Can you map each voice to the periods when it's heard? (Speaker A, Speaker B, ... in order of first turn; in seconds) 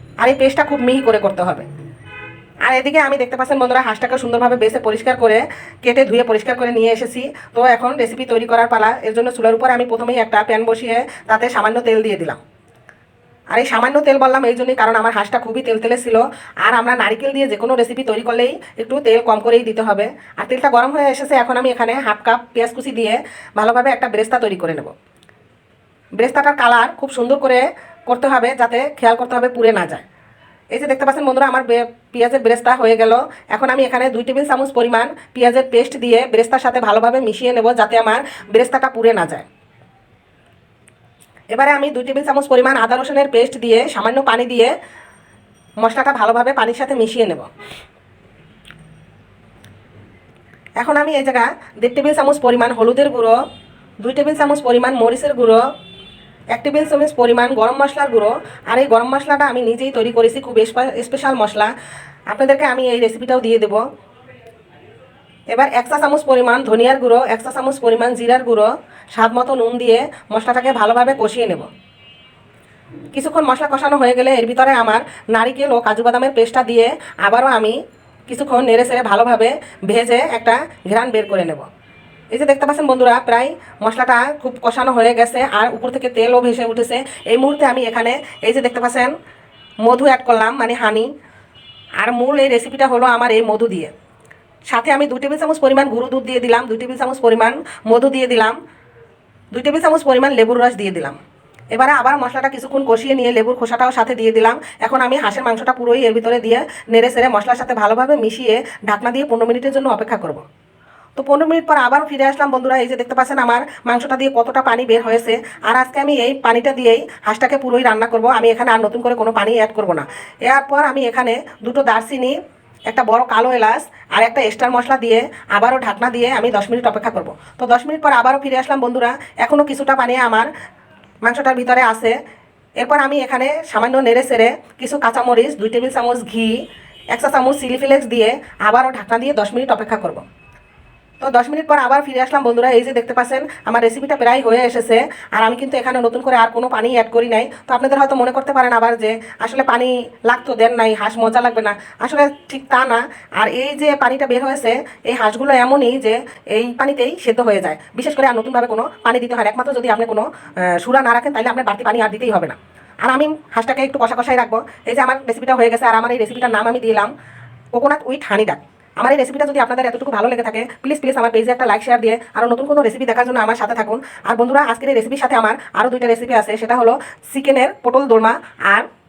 Speaker A: 0.2-1.6, 2.6-12.4, 13.5-24.9, 26.2-30.0, 30.7-39.5, 41.5-44.7, 45.8-47.5, 50.8-53.4, 54.0-55.6, 56.5-61.7, 62.3-63.8, 65.5-71.7, 73.1-81.7, 82.3-89.1, 89.8-91.1, 92.0-93.9, 94.7-98.5, 99.5-101.2, 101.7-110.4, 111.2-122.4, 122.9-130.5, 131.2-132.2, 132.8-140.2, 141.2-167.1, 167.7-178.9